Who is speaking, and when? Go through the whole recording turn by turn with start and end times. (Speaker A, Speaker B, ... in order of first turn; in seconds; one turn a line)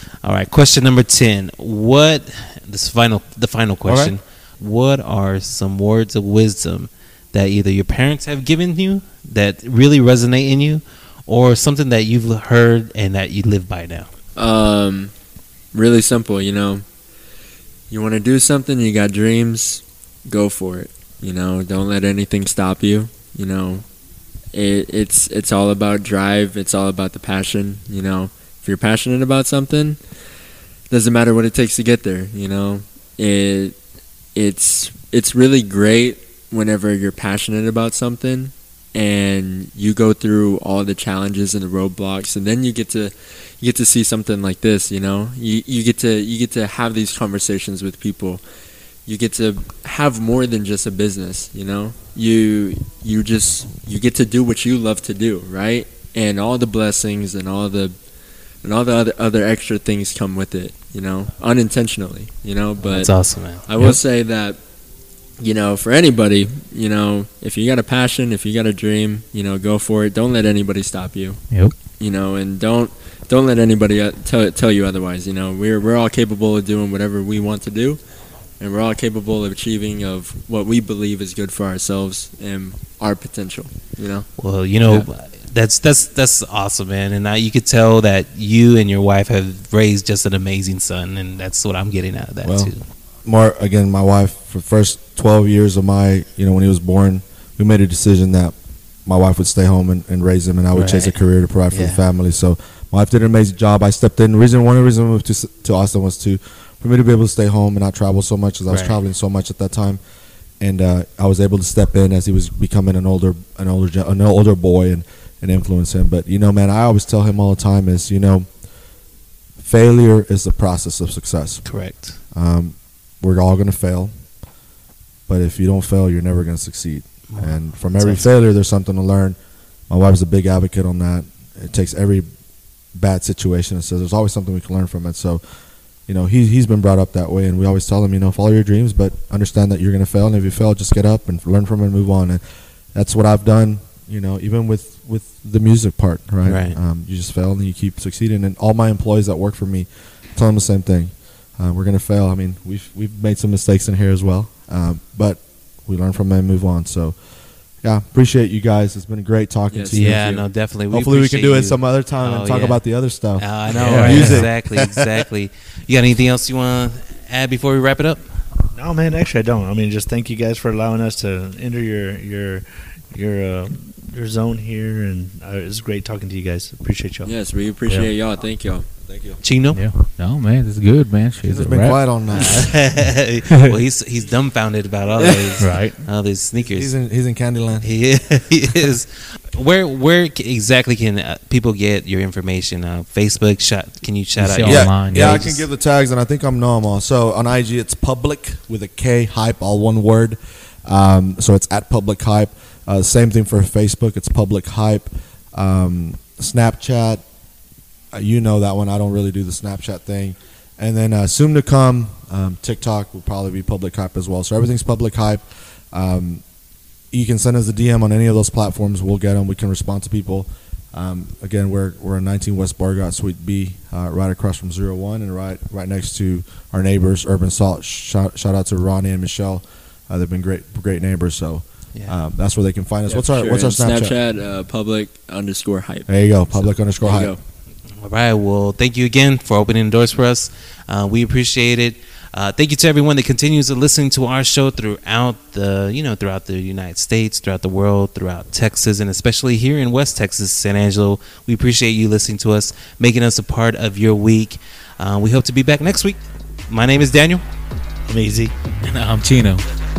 Speaker A: 0.2-14.1
Speaker B: 3.9-4.2
Speaker C: 14.4-15.1
Speaker C: 15.7-16.9
Speaker C: 17.9-23.9
Speaker C: 24.5-30.0
Speaker C: 30.9-33.8
Speaker C: 34.4-48.4
Speaker C: 49.1-57.9
Speaker C: 58.6-64.6
Speaker A: 62.8-63.6
Speaker C: 65.4-78.0
Speaker C: 78.6-84.3
Speaker A: 84.4-92.8
Speaker B: 92.4-92.7
Speaker B: 93.2-98.5
Speaker B: 99.1-110.0
Speaker A: 100.7-101.2
Speaker A: 101.7-102.0
Speaker A: 108.7-109.0
Speaker B: 110.6-118.5
Speaker B: 119.6-121.8
Speaker A: 121.7-122.2
Speaker B: 122.3-124.1
Speaker B: 125.3-129.4
Speaker A: 127.3-128.3
Speaker B: 129.9-132.3
Speaker B: 132.9-135.4
Speaker B: 136.1-142.4
Speaker B: 142.9-157.2
Speaker A: 146.4-146.8
Speaker B: 157.8-165.1
Speaker C: 159.7-160.2
Speaker A: 159.9-162.8
Speaker A: 163.3-168.4
Speaker D: 163.7-164.5
Speaker E: 168.7-177.3
Speaker C: 177.2-178.9
Speaker B: 179.0-179.4
Speaker A: 179.4-179.8
Speaker D: 179.7-182.8
Speaker B: 181.4-182.9
Speaker A: 182.3-186.9
Speaker C: 185.2-185.6
Speaker D: 185.6-186.0
Speaker B: 186.6-187.9
Speaker A: 187.8-195.6
Speaker D: 194.4-195.6
Speaker B: 194.6-207.2
Speaker B: 208.1-216.4
Speaker B: 217.1-234.2
Speaker C: 233.1-237.4
Speaker B: 236.1-237.3
Speaker A: 238.0-257.4
Speaker E: 258.1-258.5
Speaker D: 258.8-259.6